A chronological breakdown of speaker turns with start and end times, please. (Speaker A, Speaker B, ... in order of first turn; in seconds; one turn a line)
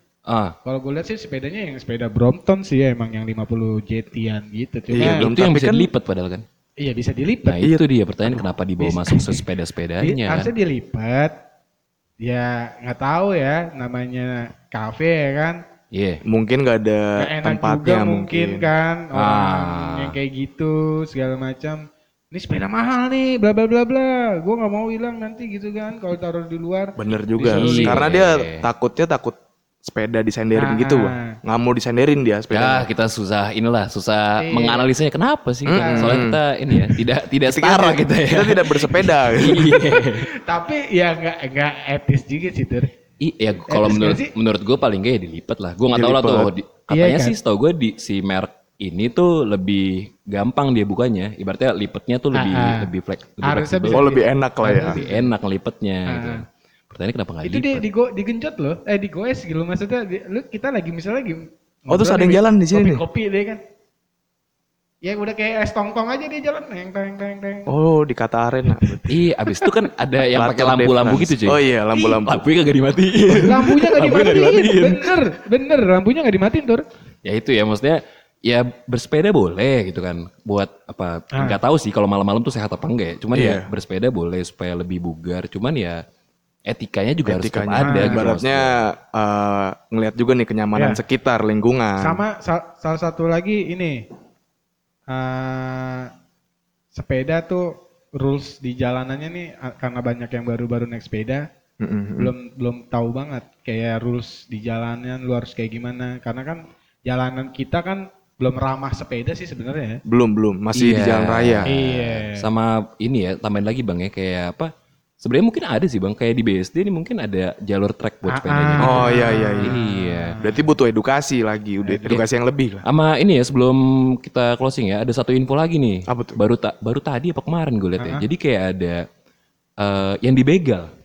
Speaker A: 0.3-0.6
Speaker B: 0.7-5.3
Speaker C: 4.9-5.9
Speaker A: 5.0-6.4
Speaker B: 6.8-7.7
Speaker A: 7.5-10.5
Speaker B: 8.8-9.4
Speaker B: 10.0-11.4
Speaker B: 12.2-15.6
Speaker A: 15.9-16.2
Speaker C: 16.3-18.7
Speaker B: 17.2-28.0
Speaker A: 19.1-20.2
Speaker C: 27.0-32.9
Speaker A: 27.4-28.6
Speaker B: 30.5-31.4
Speaker A: 32.5-40.3
Speaker B: 34.4-34.9
Speaker C: 35.7-36.4
Speaker B: 35.7-36.2
Speaker C: 37.5-39.8
Speaker B: 39.7-42.9
Speaker A: 43.2-54.1
Speaker B: 43.7-44.3
Speaker C: 45.9-46.5
Speaker B: 46.9-47.4
Speaker B: 52.3-52.9
Speaker B: 53.4-55.3
Speaker C: 53.9-55.0
Speaker A: 54.7-57.9
Speaker B: 56.1-56.4
Speaker B: 57.4-63.6
Speaker C: 61.9-63.0
Speaker B: 65.0-67.8
Speaker C: 67.7-69.0
Speaker B: 68.8-69.1
Speaker A: 69.1-75.2
Speaker C: 70.3-72.5
Speaker C: 73.3-73.7
Speaker B: 73.3-76.8
Speaker A: 77.2-86.0
Speaker C: 83.3-83.7
Speaker A: 86.7-88.8
Speaker C: 87.3-92.2
Speaker B: 87.8-88.3
Speaker B: 90.8-91.0
Speaker B: 92.0-94.0
Speaker B: 95.1-96.1
Speaker B: 96.9-101.4
Speaker C: 101.8-102.3
Speaker B: 102.2-110.0
Speaker C: 110.1-111.7
Speaker A: 110.7-114.7
Speaker B: 111.7-112.5
Speaker A: 115.2-120.4
Speaker B: 118.3-120.6
Speaker C: 118.8-119.8
Speaker C: 120.4-122.8
Speaker A: 122.8-129.0
Speaker C: 126.1-126.4
Speaker B: 128.0-128.2
Speaker A: 129.8-130.9